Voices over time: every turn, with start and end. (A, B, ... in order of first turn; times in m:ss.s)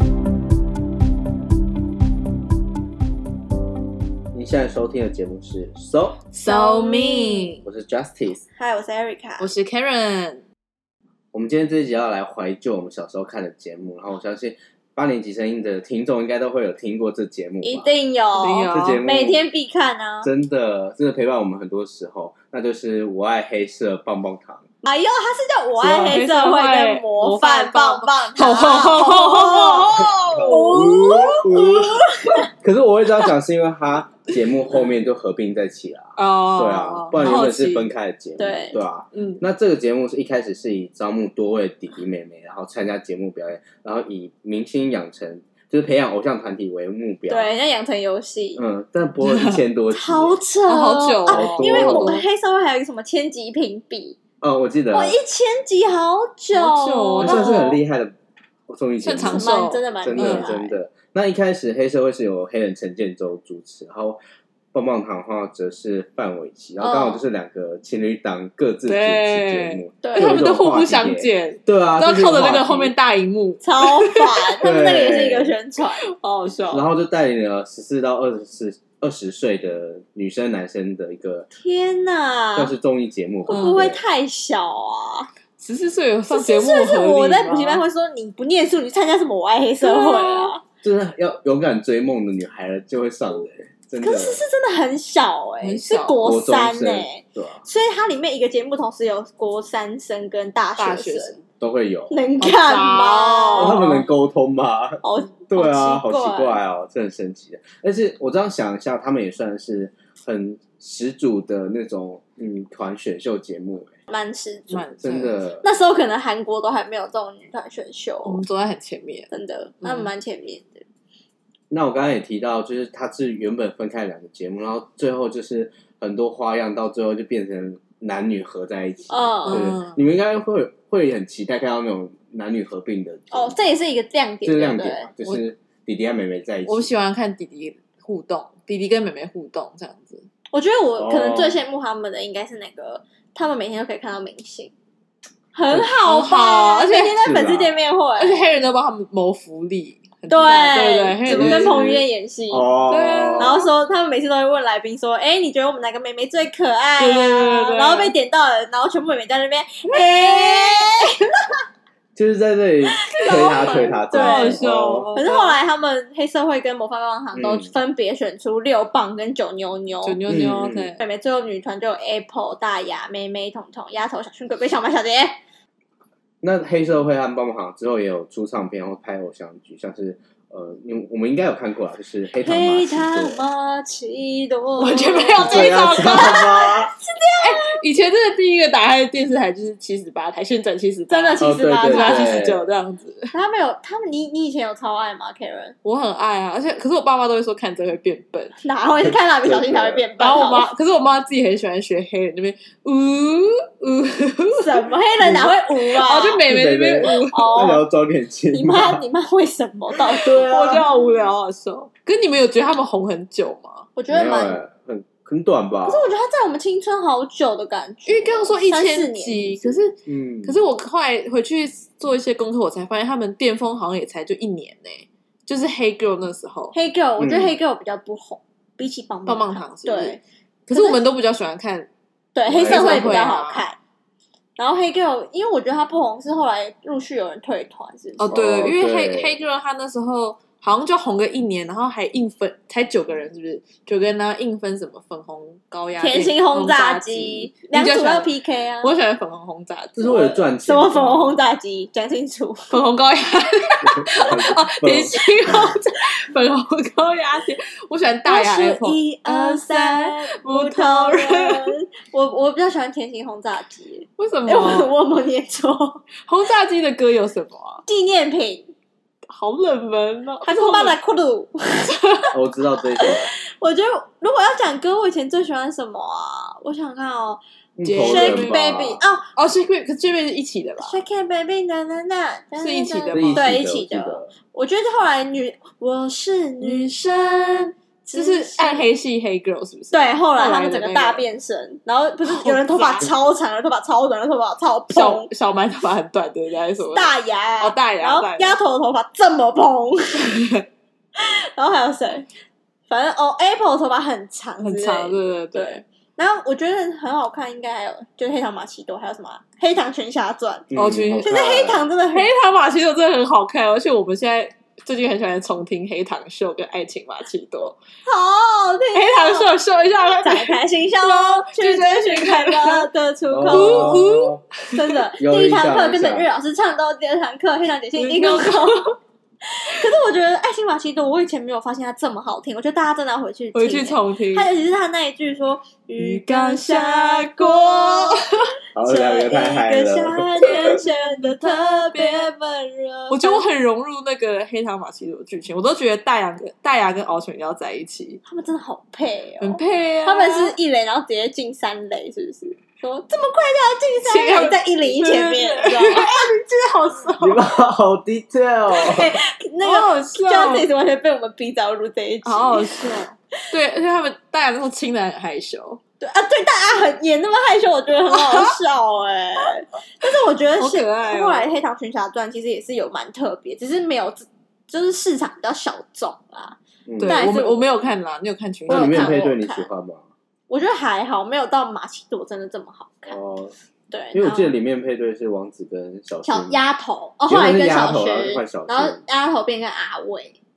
0:04.3-0:06.2 A
0:06.3-0:07.6 B
0:06.4-0:07.6 C
0:07.6-0:08.4 A
0:08.6-0:09.5 C
0:09.4-0:10.4 B
0:11.3-0:17.9 A
0:17.6-0:20.3 C
0:18.4-0:19.1 B
0:18.7-0:19.4 A
0:20.2-0:24.6 A
0:24.8-0:32.5 C
0:25.8-0:26.2 A
0:26.1-0:31.1 B
0:30.5-0:32.0 A
0:32.6-0:47.5 A
0:36.2-0:37.9 B
0:38.4-0:38.8 C
0:39.1-0:39.4 B
0:47.3-0:48.6 C
0:48.6-0:50.4 A
0:49.2-0:49.6 B
0:49.9-0:54.2 C
0:50.7-0:52.2 B
0:51.3-0:52.2 A
0:54.4-0:55.2 A
0:54.9-0:57.6 C
0:56.5-0:57.8 B
0:57.2-0:58.1 A
0:58.7-1:04.2 A
0:59.0-1:00.7 B
0:59.3-1:00.6 C
1:04.7-1:12.9 A
1:06.8-1:07.2 C
1:08.9-1:14.2 B
1:10.0-1:10.4 C
1:13.6-1:16.0 C
1:14.6-1:15.5 A
1:16.0-1:16.9 B
1:16.7-1:21.5 A
1:21.5-1:22.7 C
1:22.6-1:24.0 A
1:23.5-1:25.3 C
1:23.5-1:23.9 B
1:25.6-1:27.8 B
1:26.3-1:30.6 C
1:29.8-1:30.6 B
1:30.8-1:34.4 A
1:34.0-1:41.4 C
1:35.6-1:36.3 B
1:36.2-1:37.6 A
1:40.8-1:41.4 B
1:41.6-1:42.2 A
1:42.1-1:44.0 C
1:42.4-1:44.0 B
1:43.6-1:54.0 A
1:45.0-1:46.6 C
1:54.1-1:54.8 C
1:54.7-1:55.4 B
1:55.0-1:55.6 A
1:55.6-1:58.4 C
1:58.2-1:59.3 B
1:59.3-2:00.8 C
1:59.8-2:00.1 B
2:01.7-2:13.6 A
2:09.1-2:09.6 C
2:09.5-2:10.0 B
2:13.3-2:15.1 C
2:14.4-2:16.9 A
2:16.6-2:20.3 B
2:20.5-2:24.7 C
2:21.0-2:21.6 A
2:25.5-2:28.4 C
2:26.0-2:27.2 B
2:27.2-2:27.7 A
2:28.2-2:31.8 B
2:30.3-2:32.7 C
2:31.3-2:33.6 A
2:32.9-2:33.7 B
2:33.4-2:41.3 C
2:37.0-2:38.1 B
2:39.8-2:40.9 B
2:42.2-2:45.1 A
2:43.0-2:44.6 C
2:43.2-2:45.6 B
2:45.2-2:50.2 C
2:47.4-2:47.7 A
2:50.0-2:51.0 B
2:50.3-2:50.9 A
2:51.0-2:55.4 C
2:56.4-3:03.4 A
3:02.4-3:07.8 C
3:04.8-3:06.4 B
3:05.4-3:06.9 A
3:07.4-3:13.3 B
3:11.1-3:12.4 C
3:11.4-3:12.6 A
3:13.3-3:15.8 C
3:15.8-3:18.6 B
3:18.6-3:20.7 C
3:19.0-3:20.0 A
3:20.2-3:27.8 B
3:24.5-3:26.4 C
3:26.4-3:29.0 A
3:27.0-3:27.8 C
3:28.5-3:30.5 C
3:30.1-3:31.1 A
3:30.1-3:33.9 B
3:34.0-3:34.6 C
3:34.1-3:36.1 A
3:35.9-3:39.8 C
3:38.1-3:46.8 B
3:40.1-3:40.6 A
3:46.7-3:50.2 C
3:47.2-3:47.6 A
3:49.3-3:51.9 B
3:50.7-3:51.0 C
3:52.4-3:53.8 C
3:52.5-3:53.2 A
3:52.5-3:53.6 B
3:54.6-3:58.3 C
3:58.2-4:08.3 B
3:58.3-3:59.4 A
4:06.0-4:08.9 C
4:08.8-4:10.1 B
4:10.0-4:11.4 A
4:10.0-4:12.7 C
4:12.7-4:21.8 B
4:13.8-4:15.6 A
4:18.2-4:26.0 C
4:24.2-4:24.9 B
4:26.2-4:27.8 B
4:27.9-4:28.7 C
4:29.3-4:31.0 B
4:30.4-4:32.0 C
4:32.0-4:32.3 B
4:32.3-4:33.3 A
4:33.0-4:37.4 C
4:37.8-4:39.0 A
4:37.9-4:38.6 B
4:38.0-4:39.3 C
4:39.4-4:41.0 B
4:40.8-4:48.8 C
4:42.6-4:43.5 B
4:43.1-4:44.3 A
4:46.6-4:47.0 B
4:48.1-4:51.2 B
4:49.9-4:55.3 C
4:52.2-4:53.1 B
4:54.9-4:58.6 B
4:56.9-5:00.3 C
5:00.2-5:00.6 B
5:01.2-5:02.3 C
5:02.9-5:12.3 C
5:04.6-5:05.8 B
5:10.7-5:11.8 A
5:10.8-5:11.6 B
5:12.1-5:17.8 B
5:18.1-5:19.5 C
5:18.9-5:22.9 B
5:20.2-5:24.1 C
5:23.3-5:24.4 A
5:23.5-5:24.9 B
5:24.7-5:28.9 C
5:25.2-5:26.3 A
5:28.0-5:28.9 B
5:29.5-5:43.4 C
5:33.6-5:34.5 B
5:36.0-5:38.3 B
5:38.8-5:40.6 A
5:40.4-5:42.3 B
5:43.1-5:48.2 B
5:48.2-5:56.3 C
5:49.4-5:50.6 B
5:54.0-5:57.4 B
5:57.2-5:59.2 A
5:58.7-6:02.8 C
5:59.6-6:00.7 B
6:02.2-6:05.8 B
6:06.0-6:17.7 C
6:08.1-6:08.6 B
6:10.0-6:11.5 B
6:16.9-6:17.3 A
6:17.0-6:19.2 B
6:18.7-6:19.7 C
6:18.7-6:20.0 A
6:20.5-6:23.2 C
6:23.1-6:23.5 A
6:23.9-6:24.5 C
6:24.1-6:26.6 A
6:26.2-6:30.4 C
6:27.3-6:29.0 A